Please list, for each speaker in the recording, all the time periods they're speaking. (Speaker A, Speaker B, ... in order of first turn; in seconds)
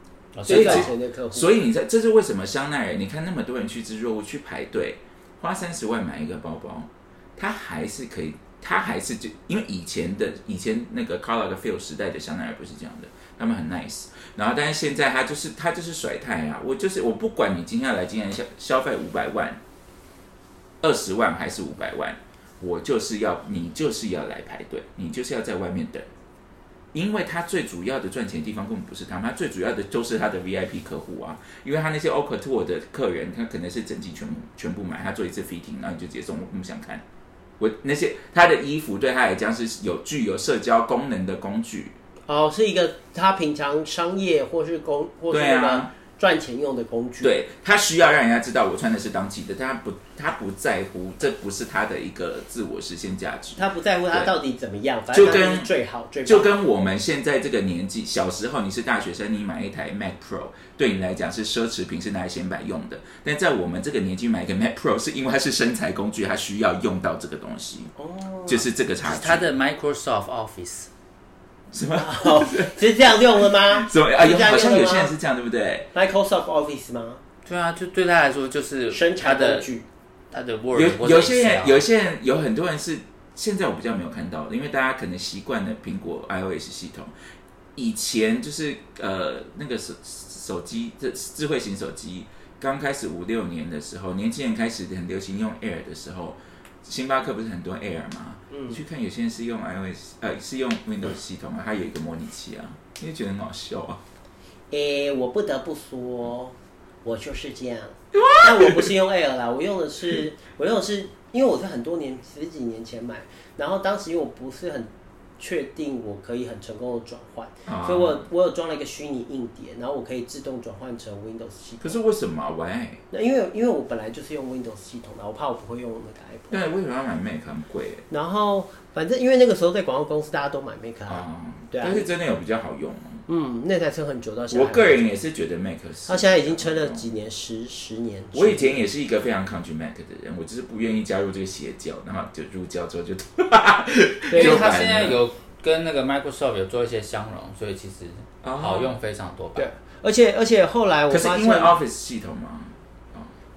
Speaker A: 0.3-0.9, 69.0-70.9, 77.5-79.7, 80.3-81.8, 144.3-149.7
Speaker B: 0.5-1.6, 42.3-47.3, 53.6-56.5, 68.0-68.7, 72.0-75.1, 75.9-77.2, 78.9-79.8, 98.5-98.8, 104.7-122.0, 123.1-126.7, 128.1-132.1, 133.3-135.1, 136.1-138.8, 144.3-144.8, 149.6-151.8
Speaker C: 0.5-19.6, 20.8-26.1, 26.9-37.0, 37.6-42.0, 45.3-45.9, 47.2-54.3, 55.1-55.7, 56.2-67.9, 68.5-69.5, 71.7-75.9, 80.7-87.1, 87.8-104.0, 108.1-109.0, 117.7-118.2, 121.8-123.0, 126.5-128.1, 131.1-133.2, 134.5-137.1, 138.3-145.2, 148.4-148.9, 151.1-153.3